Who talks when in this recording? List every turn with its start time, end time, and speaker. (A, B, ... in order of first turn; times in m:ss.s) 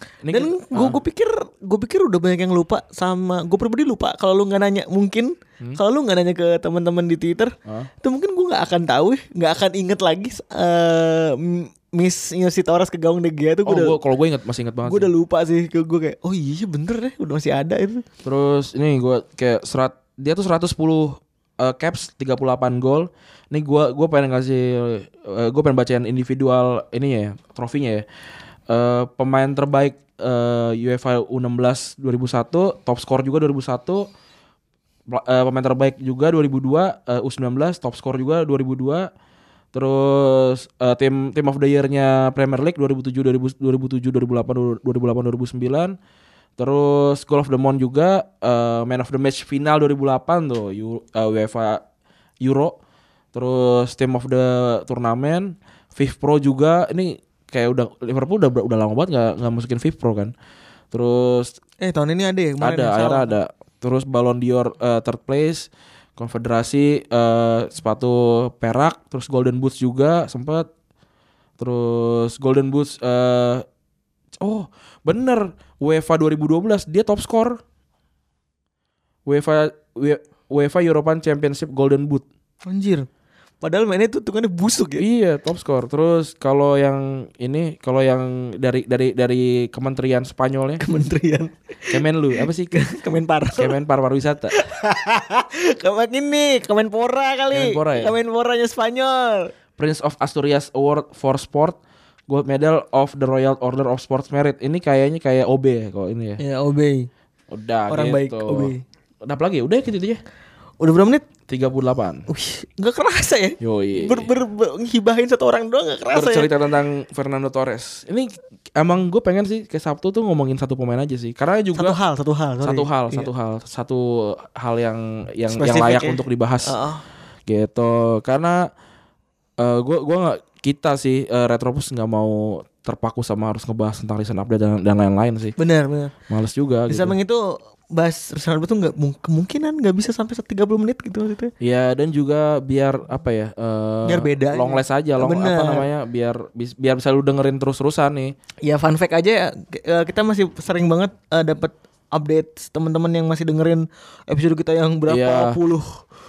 0:00.2-0:01.0 A
0:00.3-0:14.0 B
0:13.6-0:15.1 A
0:14.8-0:18.0 B
0:18.2-0:28.0 A
0:28.7-0:34.1 A
0:35.1-0:39.1 A
0:39.7-0:46.0 A
0:46.6-0:51.8 A
0:52.4-0:52.8 A
0:53.3-1:00.3 A
1:00.9-1:01.5 A
1:01.8-1:03.3 B
1:02.6-1:10.7 A
1:11.6-1:13.6 A
1:14.4-1:17.6 A
1:19.2-1:22.2 A
1:22.6-1:23.1 B
1:23.6-1:25.0 B
1:25.0-1:30.8 A
1:30.8-1:33.8 B
1:31.9-1:32.8 A
1:33.6-1:34.6 A
1:34.5-1:39.5 B
1:37.5-1:38.2 A
1:39.8-1:46.4 A
1:46.4-1:47.1 B
1:47.5-1:48.7 A
1:47.9-1:48.8 B
1:49.2-1:50.2 A
1:50.8-1:51.2 B
1:51.5-1:52.3 A
1:52.3-1:56.5 B
1:53.6-1:54.3 A
1:56.1-2:02.0 A
2:01.7-2:03.3 B
2:02.6-2:06.7 A
2:05.5-2:07.0 B
2:07.5-2:08.7 A
2:09.6-2:15.6 A
2:15.6-2:16.1 B
2:16.3-2:17.2 A
2:16.9-2:21.5 B
2:21.6-2:28.3 A
2:24.0-2:25.9 B
2:28.6-2:36.0 B
2:35.1-2:35.6 A